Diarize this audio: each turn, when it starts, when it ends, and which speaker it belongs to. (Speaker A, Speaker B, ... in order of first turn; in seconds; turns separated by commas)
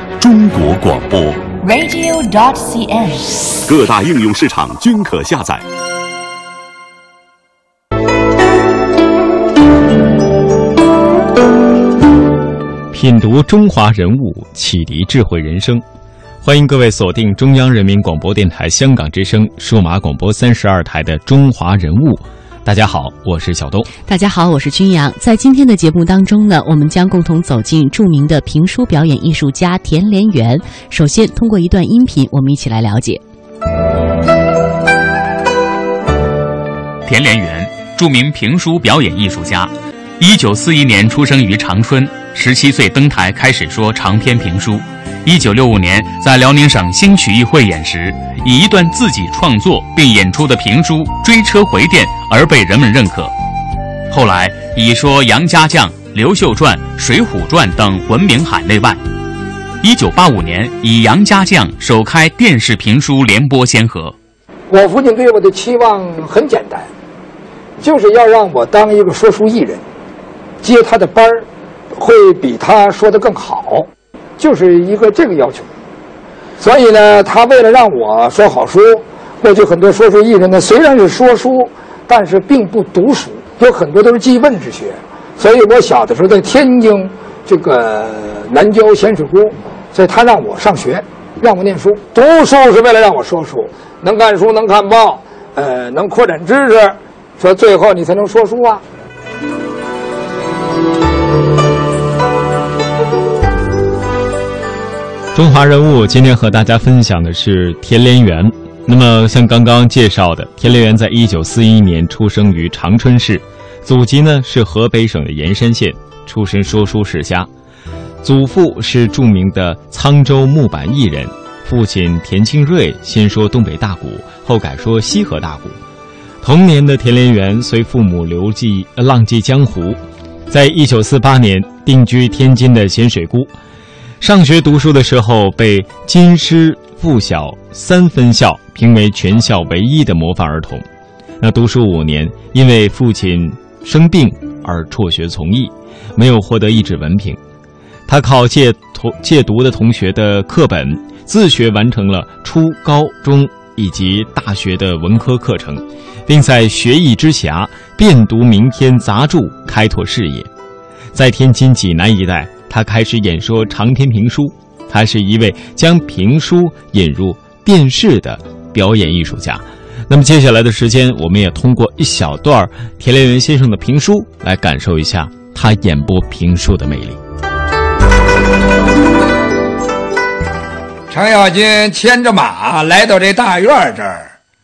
Speaker A: 0.2-1.4, Speaker B: 1.6-3.6, Speaker A: 3.7-5.6, Speaker C: 12.9-15.8, Speaker C: 16.4-23.9, Speaker D: 24.1-33.2, Speaker E: 37.0-53.3, Speaker E: 54.1-59.0, Speaker E: 59.8-64.1, Speaker F: 64.7-66.9, Speaker F: 67.8-69.8, Speaker F: 70.6-73.9, Speaker F: 74.4-75.7, Speaker F: 76.6-98.8, Speaker C: 105.3-117.5, Speaker C: 118.2-125.8, Speaker C: 126.4-133.5, Speaker C: 134.2-140.8, Speaker C: 141.4-147.4, Speaker C: 148.1-160.5, Speaker C: 161.1-177.2, Speaker F: 181.1-184.3